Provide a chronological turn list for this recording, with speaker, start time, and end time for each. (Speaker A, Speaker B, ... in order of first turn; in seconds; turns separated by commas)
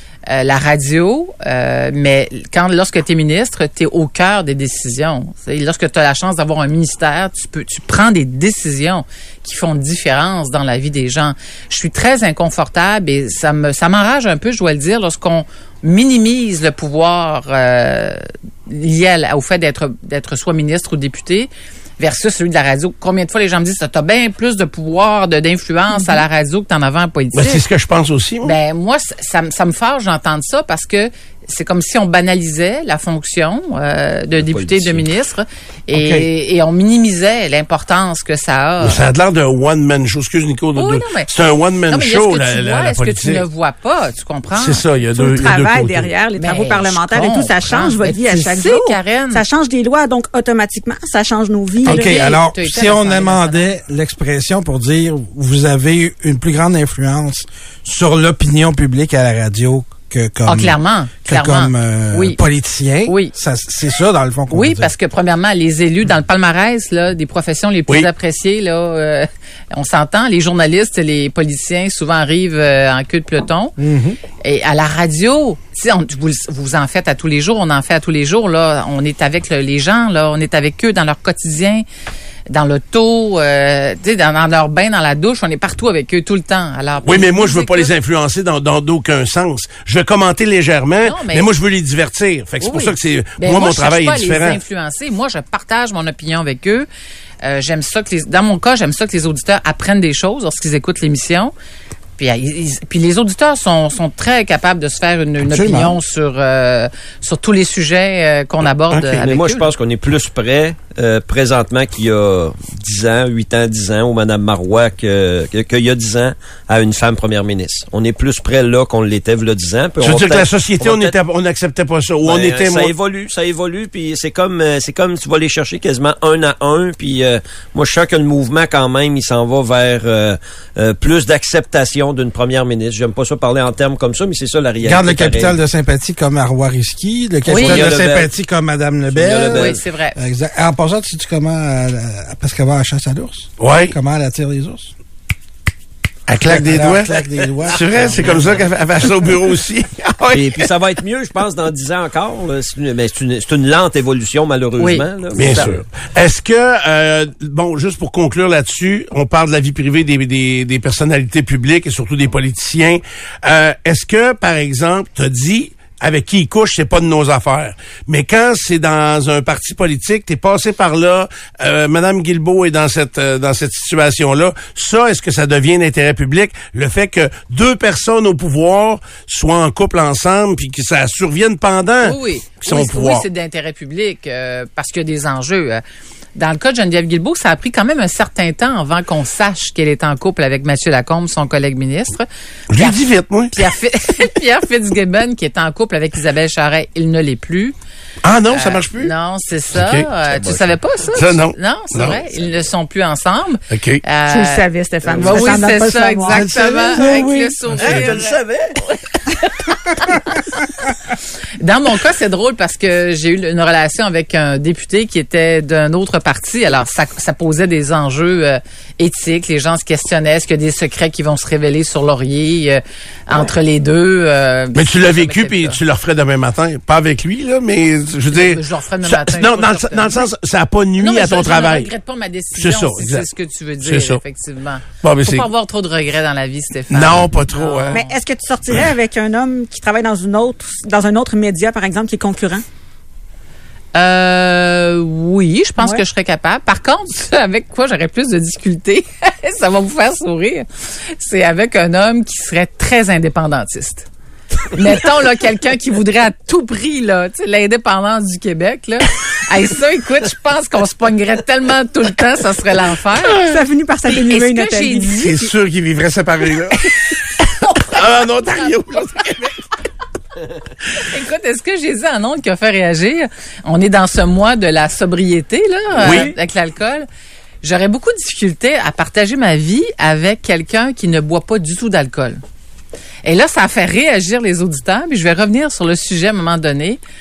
Speaker A: 0.3-27.6, Speaker B: 27.3-28.6, Speaker A: 28.4-39.0, Speaker C: 34.4-35.1, Speaker D: 35.9-36.2, Speaker B: 38.8-43.4, Speaker A: 40.8-41.3, Speaker A: 41.9-44.9, Speaker B: 44.5-46.1, Speaker E: 45.1-52.2, Speaker A: 46.4-49.4, Speaker A: 51.8-53.7, Speaker D: 51.9-64.9, Speaker A: 60.5-62.4, Speaker A: 63.0-63.3, Speaker A: 64.5-73.8, Speaker D: 73.8-74.2, Speaker A: 74.4-81.8, Speaker A: 82.5-87.9, Speaker B: 87.0-94.6, Speaker A: 91.0-91.5, Speaker A: 92.6-96.9, Speaker A: 97.4-101.5, Speaker A: 102.2-109.7, Speaker D: 105.4-106.0, Speaker B: 108.9-109.2, Speaker C: 109.2-121.1, Speaker B: 120.0-122.9, Speaker C: 122.2-135.6, Speaker D: 134.8-144.9, Speaker A: 137.5-137.9, Speaker C: 137.5-138.3, Speaker C: 139.1-139.8, Speaker A: 139.5-140.2, Speaker B: 143.6-143.9, Speaker B: 146.3-150.7, Speaker D: 146.4-148.6, Speaker C: 150.3-155.8, Speaker A: 154.8-155.7, Speaker B: 155.3-183.2, Speaker A: 182.0-185.8, Speaker A: 186.3-193.0, Speaker B: 192.7-193.5, Speaker A: 193.5-197.7, Speaker B: 198.2-199.1, Speaker A: 198.5-210.6, Speaker B: 199.7-200.1, Speaker C: 200.3-200.7, Speaker B: 201.1-202.2, Speaker B: 203.7-204.0, Speaker E: 204.3-207.6, Speaker C: 205.1-205.4, Speaker B: 207.7-208.2, Speaker C: 207.7-208.8, Speaker A: 211.6-225.8, Speaker B: 224.7-231.9, Speaker A: 228.3-230.3, Speaker A: 231.0-238.2, Speaker B: 232.6-233.2, Speaker B: 233.8-234.2, Speaker B: 235.0-235.5, Speaker B: 236.9-238.0, Speaker E: 237.9-242.6, Speaker A: 243.9-254.1, Speaker A: 254.7-263.5, Speaker E: 263.4-265.2, Speaker A: 264.1-265.5, Speaker B: 265.2-267.1, Speaker B: 267.8-269.6, Speaker A: 270.9-277.1, Speaker B: 276.0-276.3, Speaker A: 277.6-282.4, Speaker A: 283.2-287.0